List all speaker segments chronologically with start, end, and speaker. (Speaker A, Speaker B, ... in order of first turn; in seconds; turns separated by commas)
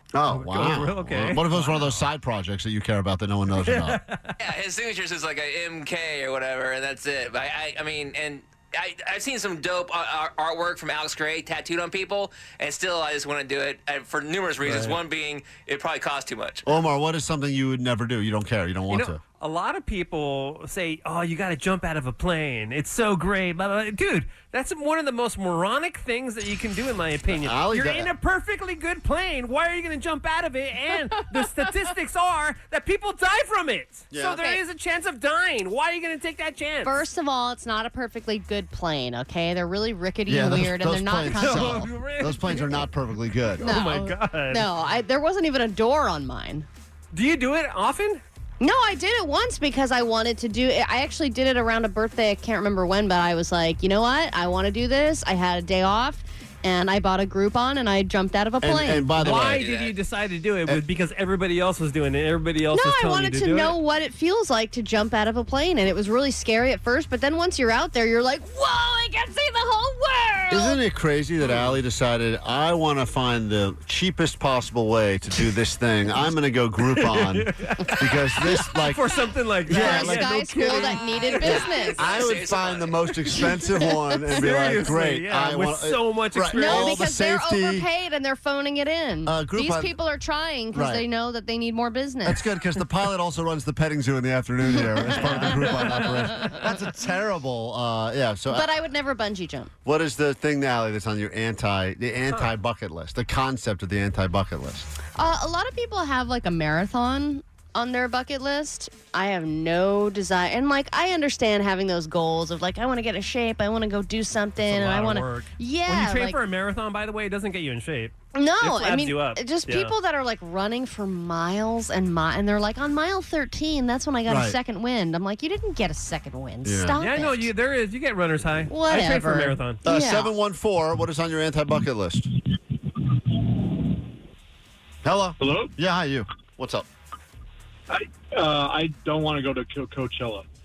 Speaker A: 0.1-4.0, Speaker B: 0.2-2.1, Speaker B: 3.6-4.3, Speaker C: 4.4-16.7, Speaker B: 14.7-14.9, Speaker A: 16.6-19.2, Speaker B: 18.9-37.0, Speaker A: 27.3-28.1, Speaker A: 34.1-34.4, Speaker D: 34.2-34.6, Speaker D: 36.8-41.9, Speaker A: 40.3-43.6, Speaker B: 41.4-42.9, Speaker B: 43.6-44.7, Speaker D: 43.6-46.7, Speaker B: 47.1-48.2, Speaker D: 48.6-59.3, Speaker A: 58.6-59.6, Speaker B: 59.2-63.7, Speaker C: 59.5-59.9, Speaker D: 62.7-70.8, Speaker A: 70.5-79.0, Speaker B: 71.4-71.8, Speaker B: 76.8-81.7, Speaker A: 79.7-80.3, Speaker D: 79.7-82.0, Speaker C: 80.8-83.5, Speaker A: 82.0-87.9, Speaker D: 83.3-84.5, Speaker B: 84.3-87.0, Speaker D: 86.5-92.5, Speaker A: 89.2-89.9, Speaker A: 90.7-91.0, Speaker A: 92.2-98.7, Speaker D: 94.7-95.6, Speaker B: 95.2-96.0, Speaker D: 96.3-96.6, Speaker D: 98.5-99.7, Speaker A: 99.8-104.9, Speaker D: 105.2-116.4, Speaker B: 114.6-119.9, Speaker D: 118.3-127.5, Speaker A: 124.2-124.6, Speaker A: 126.6-127.0, Speaker B: 127.0-129.8, Speaker D: 128.7-130.3, Speaker A: 129.8-132.3, Speaker A: 135.0-136.9, Speaker E: 135.4-135.7, Speaker E: 137.9-140.4